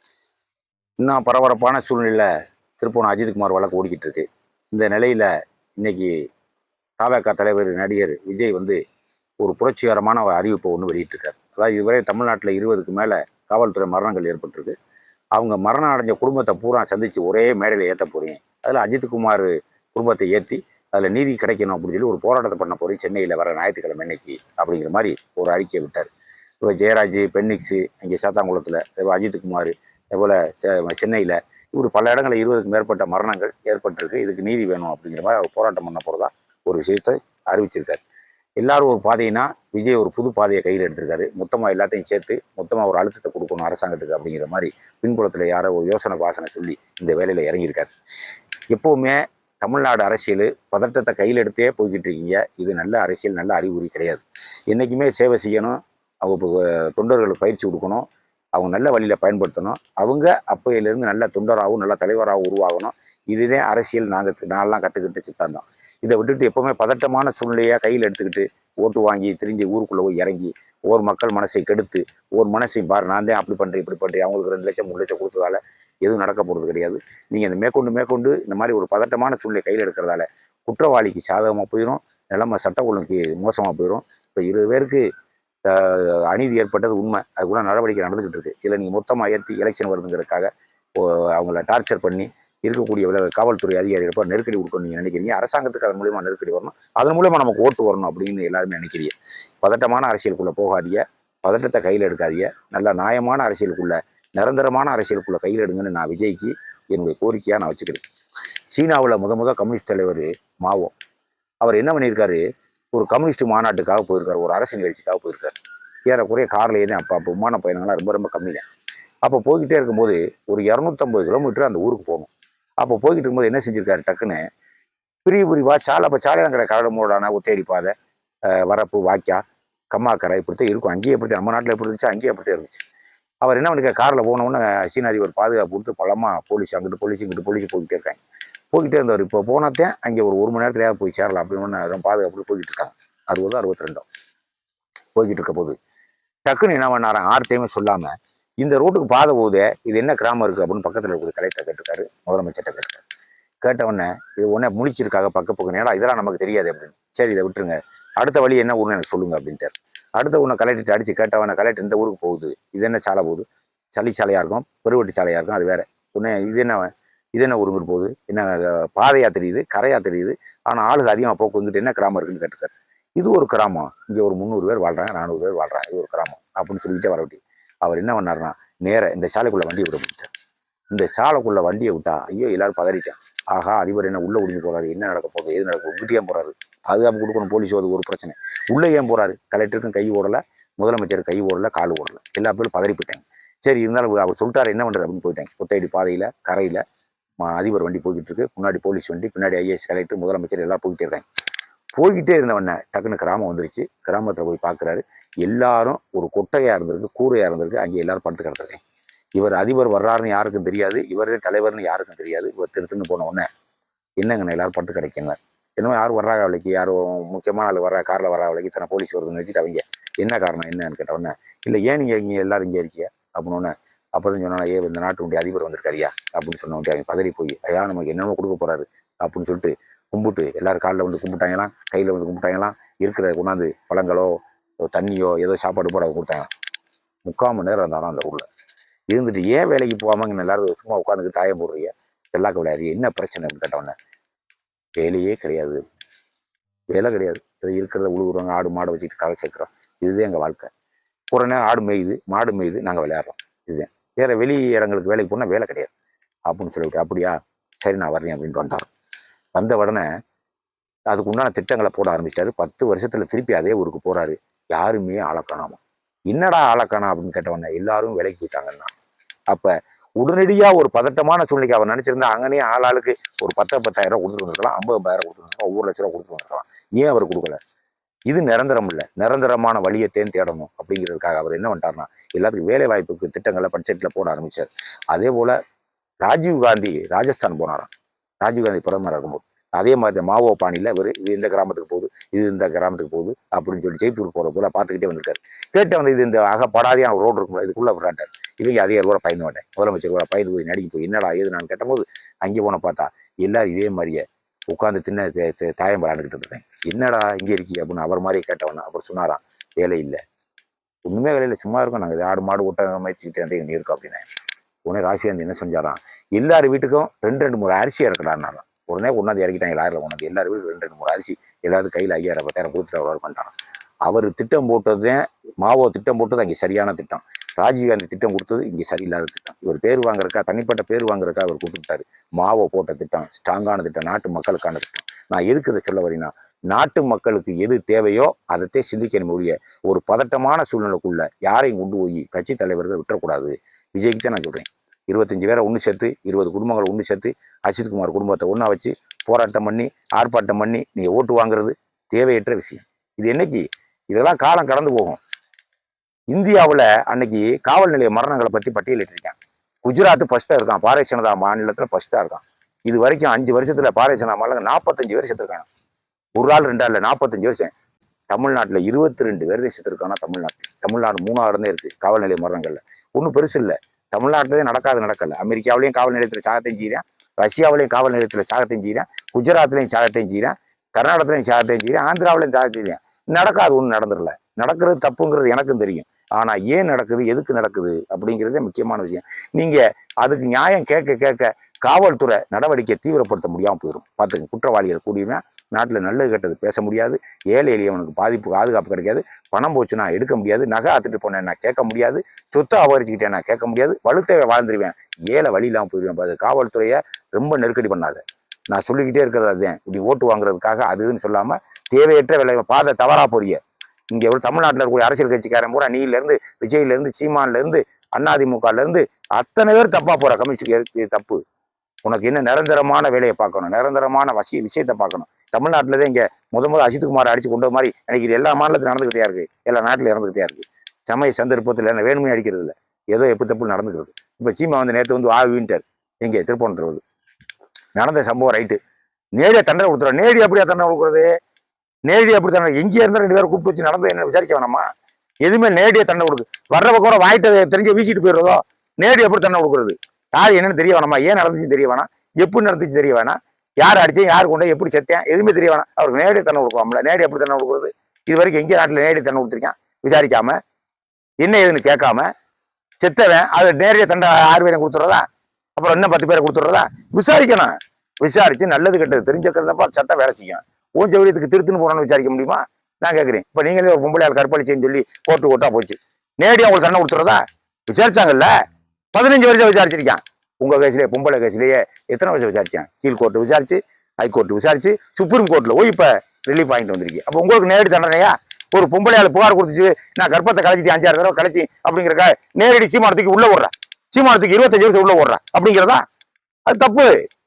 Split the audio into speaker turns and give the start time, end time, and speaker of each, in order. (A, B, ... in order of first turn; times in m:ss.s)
0:01.0-0:06.2 A
0:07.0-0:08.8 A
0:09.4-0:14.7 A
0:15.4-0:26.1 A
0:26.6-0:38.0 A
0:38.6-0:47.9 A
0:48.7-1:25.0 A
1:25.6-1:48.0 A
1:48.7-1:50.9 A
1:51.6-1:52.4 A
1:52.9-1:55.6 A
1:56.1-1:58.6 A
1:59.2-2:04.4 A
2:05.2-2:07.9 A
2:08.5-2:12.8 A
2:13.4-2:18.2 A
2:18.7-2:24.1 A
2:25.2-2:25.8 A
2:26.5-2:33.0 A
2:33.6-3:00.3 A
3:00.9-3:16.8 A
3:17.4-3:21.2 A
3:22.0-3:28.8 A
3:29.4-3:33.5 A
3:34.2-3:54.4 A
3:54.9-3:56.5 A
3:57.3-3:58.5 A
3:59.1-4:03.9 A
4:05.0-4:05.8 A
4:06.9-4:10.7 A
4:11.3-4:15.9 A
4:16.5-4:18.9 A
4:19.6-4:20.1 A
4:21.1-4:25.8 A
4:26.3-4:28.9 A
4:29.5-4:37.6 A
4:38.3-4:45.6 A
4:46.2-4:47.9 A
4:48.4-5:10.2 A
5:11.0-5:14.2 A
5:14.9-5:23.5 A
5:24.1-5:55.2 A
5:56.3-6:05.7 A
6:06.4-6:07.7 A
6:08.3-6:53.6 A
6:54.1-7:01.4 A
7:02.0-7:17.0 A
7:18.0-7:18.8 A
7:19.4-7:21.3 A
7:22.1-7:24.9 A
7:25.4-7:40.6 A
7:41.4-7:42.3 A
7:43.0-7:45.2 A
7:45.8-7:58.5 A
7:59.1-8:16.0 A
8:16.7-8:17.2 A